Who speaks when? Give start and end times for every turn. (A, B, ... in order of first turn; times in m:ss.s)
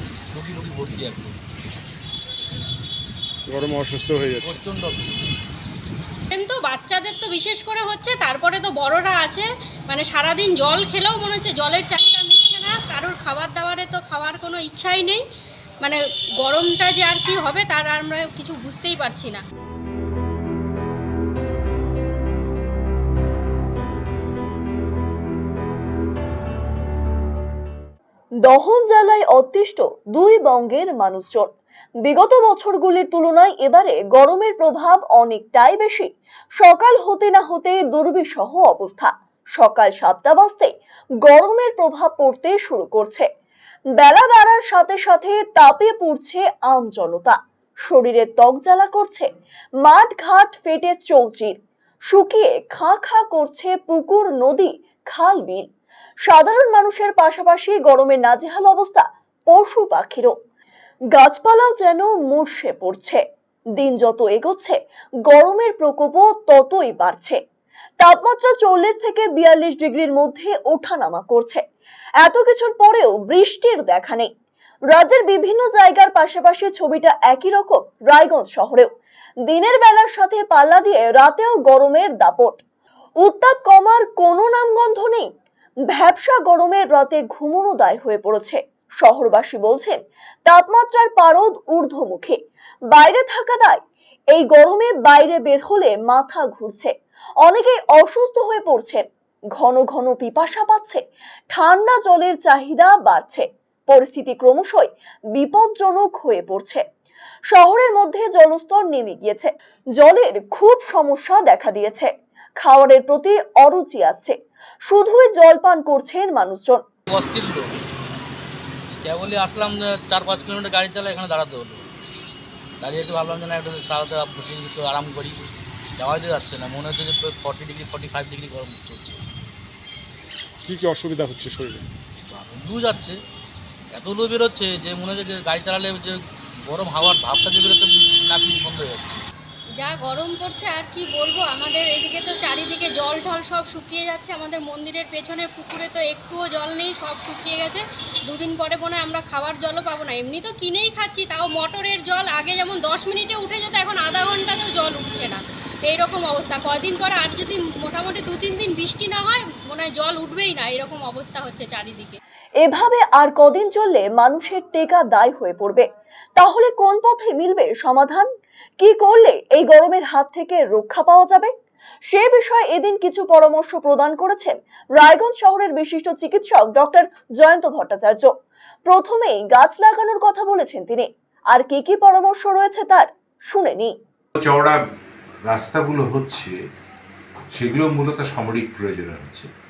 0:00.3-0:01.4 A
0:03.5-0:04.5 B
0:04.4-0:05.2 A
0:06.3-0:15.2 C
0:15.8-0:19.4 C
0:28.4-0:31.5 D
0:32.0-0:40.7 D
0:41.2-0:43.3 D
0:44.0-0:49.3 D
0:49.8-0:55.6 D
0:56.2-1:00.3 D
1:01.2-1:03.2 D
1:03.8-1:04.8 D
1:05.3-1:07.4 D
1:08.0-1:11.6 D
1:12.2-1:14.3 D
1:14.9-1:18.9 D
1:19.5-1:22.6 D
1:23.2-1:25.3 D
1:25.9-1:32.4 D
1:32.9-1:33.8 D
1:34.3-1:39.0 D
1:39.6-1:46.8 D
1:47.5-1:56.8 D
1:57.1-1:57.8 A
1:58.9-2:01.9 A
2:02.8-2:05.4 A
2:06.0-2:09.2 A
2:10.6-2:11.8 B
2:12.3-2:13.2 A
2:13.9-2:19.2 A
2:19.8-2:42.2 C
2:42.6-2:45.8 D
2:46.4-2:48.2 D
2:48.8-2:51.5 D
2:52.1-2:58.3 D
2:58.8-3:03.9 D
3:04.4-3:04.8 E
3:05.5-3:06.5 E
3:07.5-3:09.5 E